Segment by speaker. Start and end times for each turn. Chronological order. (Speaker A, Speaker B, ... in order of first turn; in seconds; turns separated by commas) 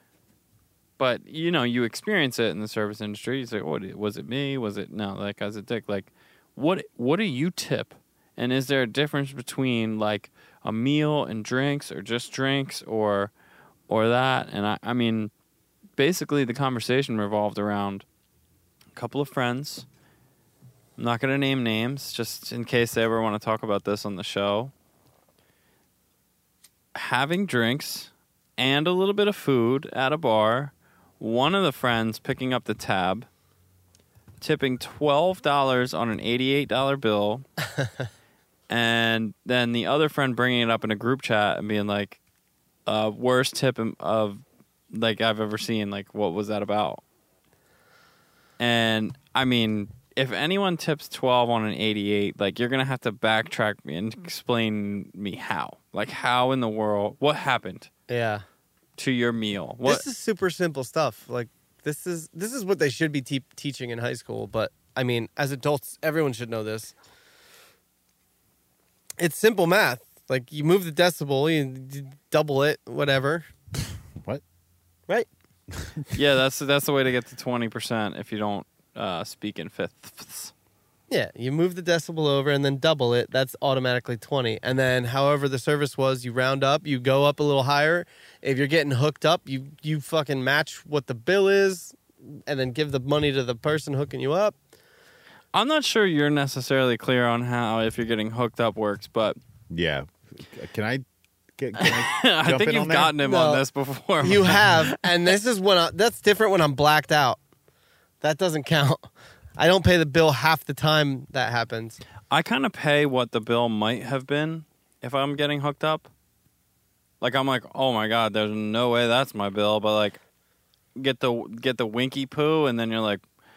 Speaker A: 1.0-13.3, Speaker A: 13.9-15.3, Speaker A: 16.0-18.0, Speaker A: 18.9-19.9, Speaker A: 21.0-24.7, Speaker A: 26.9-33.3, Speaker A: 34.4-37.5, Speaker A: 38.7-42.2, Speaker A: 42.9-47.0, Speaker A: 48.6-57.9, Speaker B: 58.1-58.4, Speaker A: 59.0-60.0, Speaker B: 59.8-66.9, Speaker B: 69.2-73.5, Speaker C: 74.2-74.4, Speaker C: 75.8-76.0, Speaker A: 76.1-80.5, Speaker B: 81.1-94.5, Speaker A: 95.5-99.4, Speaker C: 99.7-101.0, Speaker C: 101.6-103.2, Speaker A: 101.8-105.0, Speaker B: 103.2-103.6, Speaker B: 104.2-107.4, Speaker B: 108.2-112.0, Speaker A: 112.3-116.1, Speaker A: 117.2-120.2, Speaker A: 121.0-123.2